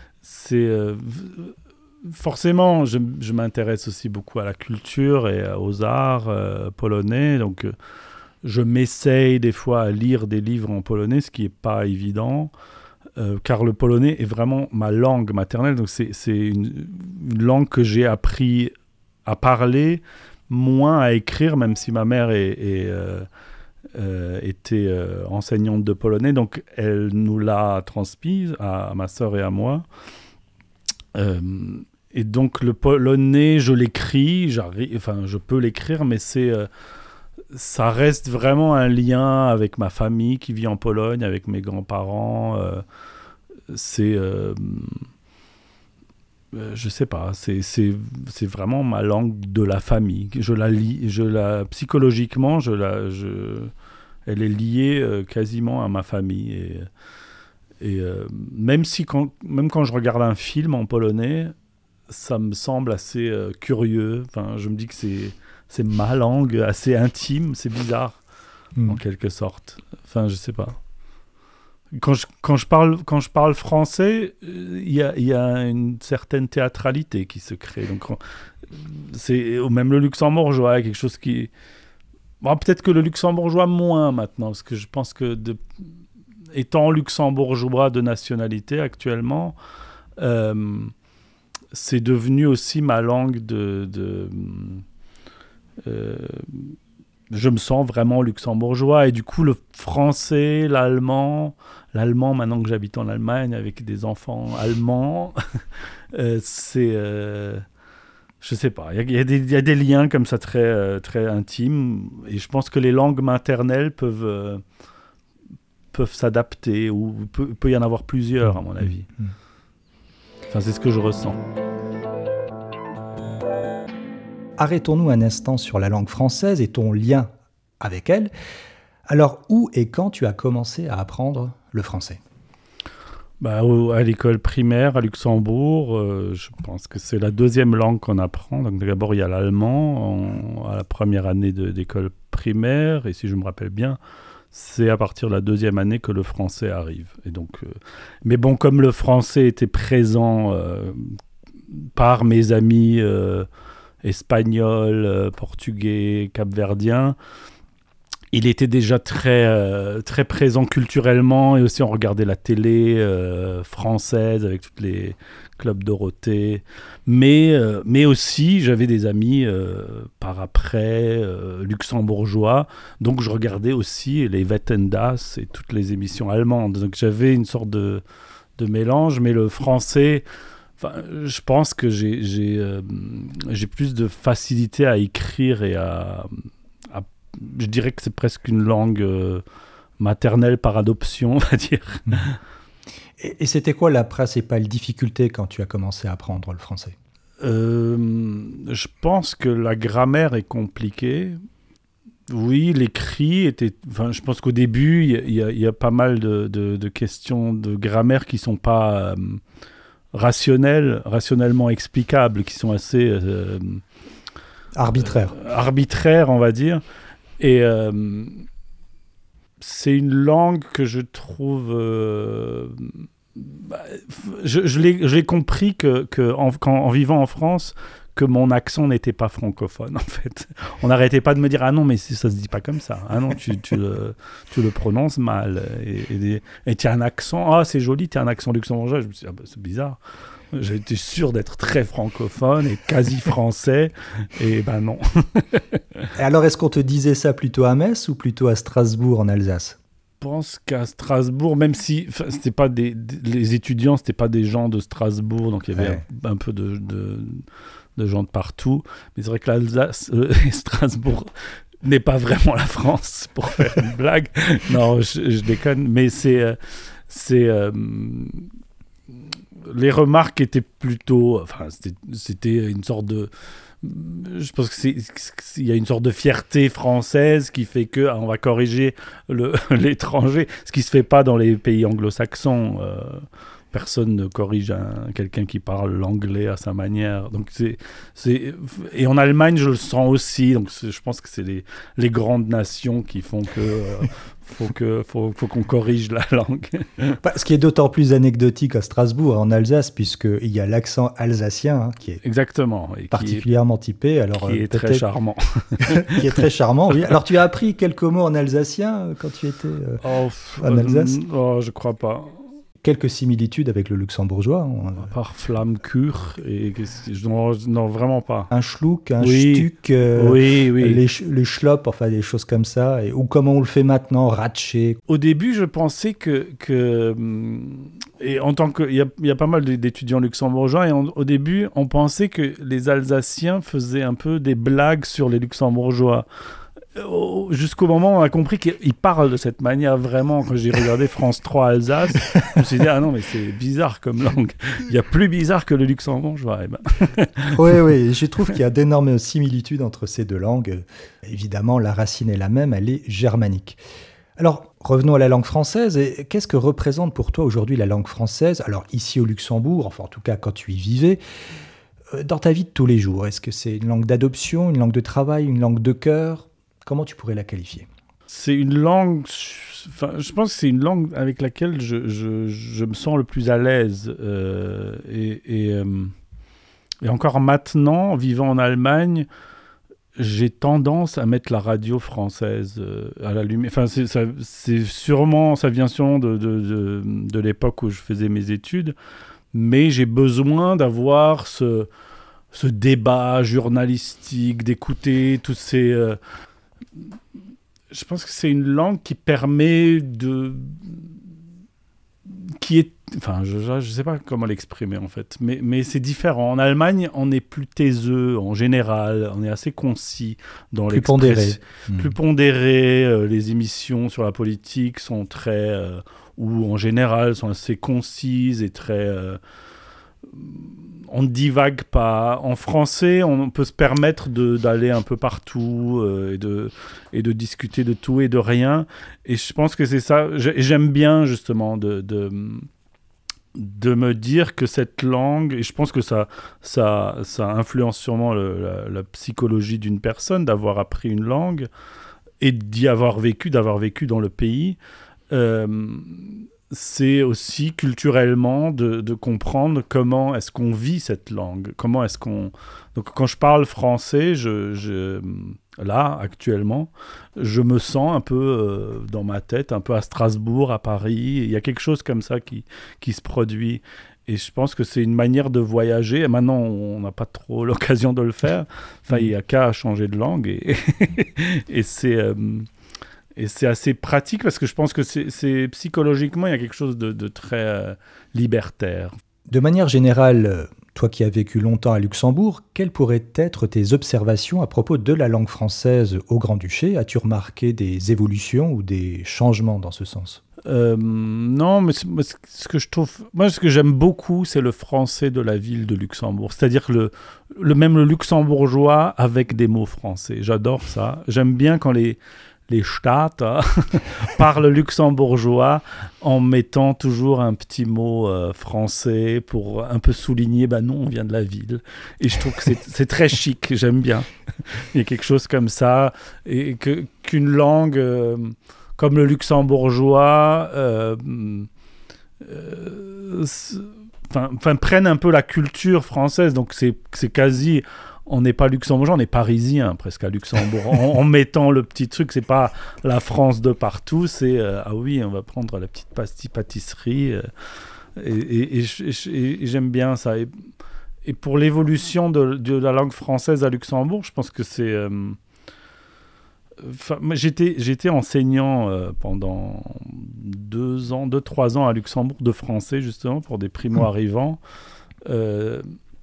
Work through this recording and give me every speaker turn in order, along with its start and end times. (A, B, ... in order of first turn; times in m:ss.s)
0:00.2-0:07.7 A
0:08.4-0:12.5 A
0:13.2-0:18.7 A
0:19.3-0:23.3 A
0:24.0-0:29.8 A
0:31.2-0:36.7 A
0:37.5-0:42.8 A
0:43.7-0:45.1 A
0:46.5-0:53.7 A
0:54.3-0:56.9 A
0:57.8-1:01.5 A
1:02.1-1:08.2 A
1:08.9-1:10.8 A
1:12.0-1:21.5 A
1:22.4-1:25.6 A
1:26.5-1:29.6 A
1:30.2-1:30.9 A
1:31.7-1:34.8 A
1:35.9-1:36.8 A
1:37.3-1:45.4 A
1:46.1-1:47.6 A
1:48.4-1:54.6 A
1:55.9-1:59.1 A
2:00.5-2:01.4 A
2:04.6-2:08.3 B
2:09.1-2:12.2 B
2:13.4-2:24.0 A
2:24.5-2:31.2 A
2:31.7-2:33.5 A
2:34.0-2:37.2 A
2:38.3-2:58.0 A
2:58.6-3:00.3 A
3:00.8-3:09.4 A
3:10.0-3:12.4 A
3:13.2-3:17.0 B
3:17.4-3:21.4 A
3:22.3-3:29.4 A
3:30.1-3:33.8 A
3:34.8-3:35.4 B
3:35.0-3:36.8 A
3:37.4-3:38.5 A
3:39.6-4:00.0 A
4:00.5-4:06.0 A
4:06.2-4:09.8 B
4:10.2-4:17.4 A
4:15.8-4:16.0 B
4:18.0-4:21.3 A
4:21.8-4:28.5 A
4:29.6-4:57.2 A
4:57.2-5:02.2 B
5:02.2-5:03.4 A
5:03.1-5:05.0 B
5:04.4-5:06.2 A
5:05.8-5:10.0 B
5:10.0-5:12.4 A
5:10.6-5:11.2 B
5:12.8-5:15.1 B
5:15.0-5:18.5 A
5:18.5-5:25.0 B
5:19.2-5:21.0 A
5:25.1-5:36.3 A
5:36.9-5:47.8 A
5:47.5-5:53.8 B
5:54.4-6:01.2 B
6:02.1-6:07.9 B
6:08.3-6:16.1 A
6:17.0-6:19.3 A
6:20.2-6:28.9 A
6:29.5-6:31.9 A
6:32.5-6:36.2 A
6:37.9-6:41.1 A
6:42.3-6:59.4 A
6:50.9-6:52.1 B
7:00.3-7:12.7 A
7:13.6-7:21.7 A
7:22.4-7:24.8 A
7:25.3-7:52.7 A
7:53.4-7:59.2 A
7:59.5-8:10.4 B
8:10.7-8:22.2 A
8:22.7-8:41.7 A
8:42.4-8:57.5 A
8:58.2-9:00.5 A
9:01.2-9:05.4 A
9:06.8-9:14.6 A
9:15.3-9:15.8 A